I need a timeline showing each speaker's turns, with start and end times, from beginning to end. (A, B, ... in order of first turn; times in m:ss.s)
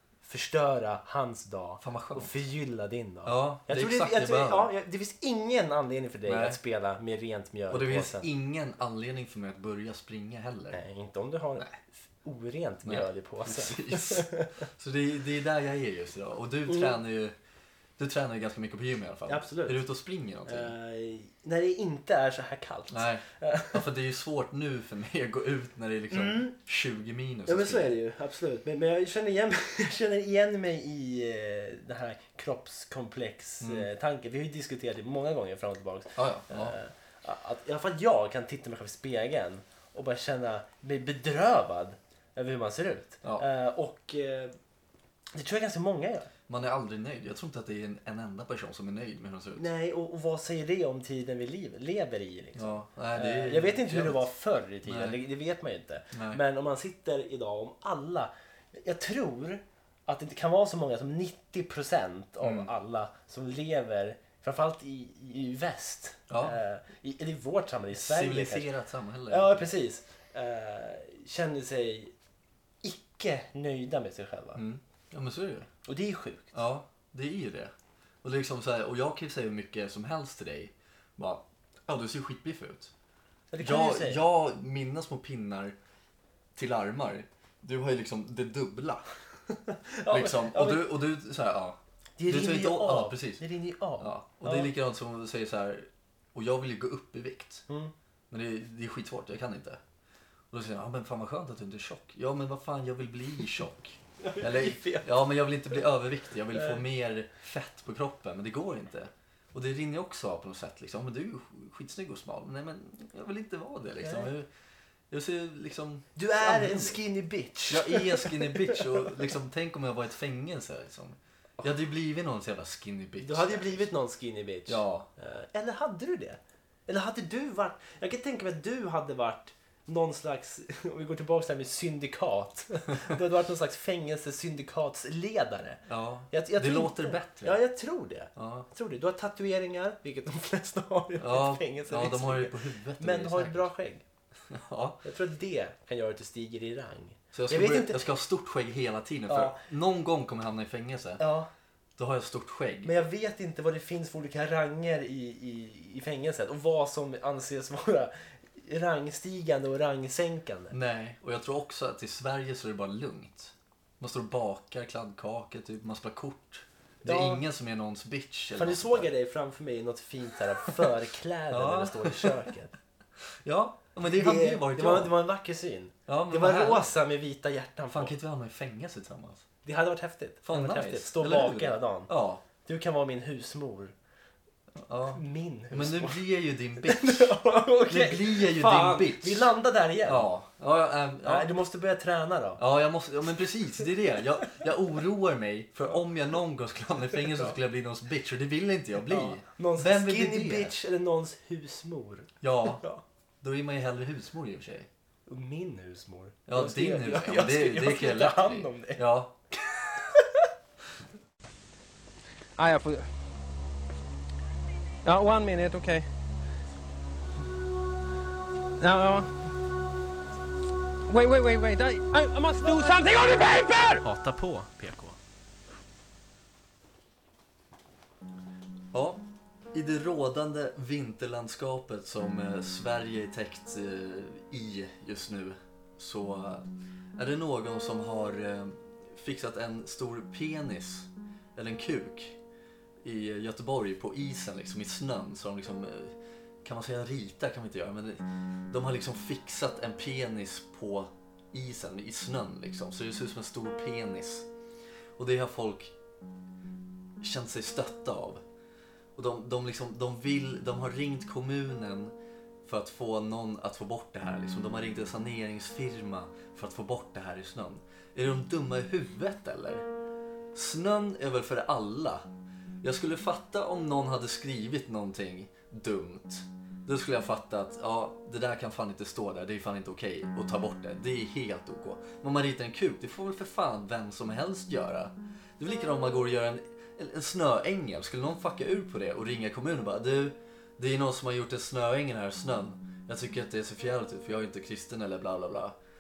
0:00.2-0:08.3 A
0:01.8-0:02.3 B
0:03.2-0:04.7 B
0:06.3-0:06.6 B
0:07.7-0:10.8 B
0:10.7-0:14.5 A
0:12.8-0:17.4 B
0:16.7-0:17.0 A
0:18.0-0:20.7 B
0:19.3-0:19.8 A
0:20.5-0:23.8 A
0:22.9-0:28.0 B
0:26.1-0:26.6 A
0:27.5-0:44.5 A
0:33.6-0:33.9 B
0:36.2-0:36.8 B
0:45.3-0:46.3 A
0:46.5-0:49.7 B
0:49.6-1:08.7 A
0:52.6-0:54.3 B
0:54.8-0:55.2 B
0:56.1-0:56.4 B
1:02.4-1:02.7 B
1:06.3-1:06.6 B
1:07.9-1:09.7 B
1:09.3-1:12.1 A
1:12.8-1:14.6 A
1:14.6-1:15.7 B
1:15.8-1:16.5 A
1:16.5-1:22.9 B
1:23.5-1:24.2 A
1:23.6-1:25.8 B
1:26.6-1:29.1 B
1:29.5-1:30.9 A
1:30.1-1:33.4 B
1:32.2-1:34.7 A
1:34.0-1:37.6 B
1:37.7-1:37.9 A
1:38.3-1:39.8 B
1:40.5-1:54.5 B
1:44.2-1:45.1 A
1:46.6-1:46.8 A
1:54.0-1:54.3 A
1:55.1-1:57.0 B
1:56.2-1:59.1 A
1:57.7-2:03.9 B
2:03.2-2:24.0 A
2:04.7-2:05.1 B
2:15.9-2:17.6 B
2:18.4-2:18.7 B
2:21.2-2:23.7 B
2:24.5-2:25.0 B
2:25.0-2:28.0 A
2:27.3-2:31.2 B
2:29.3-2:29.6 A
2:31.2-2:31.5 A
2:32.0-2:33.0 B
2:32.8-2:40.8 A
2:40.7-2:49.1 B
2:47.0-2:47.4 A
2:48.5-2:52.7 A
2:51.5-2:52.4 B
2:53.4-2:55.1 B
2:54.0-2:58.2 A
2:56.1-2:56.9 B
2:57.9-2:59.4 B
2:59.6-3:02.1 A
3:00.4-3:02.4 B
3:02.6-3:03.9 A
3:04.8-3:09.5 B
3:05.1-3:06.2 A
3:06.8-3:10.3 A
3:10.1-3:11.5 B
3:11.2-3:12.6 A
3:12.6-3:20.7 B
3:19.1-3:23.0 A
3:22.4-3:22.8 B
3:23.4-3:24.9 B
3:25.3-3:29.0 A
3:26.5-3:29.4 B
3:29.6-3:30.5 A
3:32.6-3:33.1 C
3:35.0-3:36.1 C
3:38.8-3:39.3 C
3:41.1-3:44.0 C
3:44.0-3:45.2 A
3:48.9-4:02.4 B
4:03.0-4:14.5 B
4:15.2-4:15.9 B
4:17.2-4:18.4 B
4:19.2-4:22.1 B
4:22.6-4:29.9 B
4:30.5-4:32.2 B
4:32.8-4:55.8 B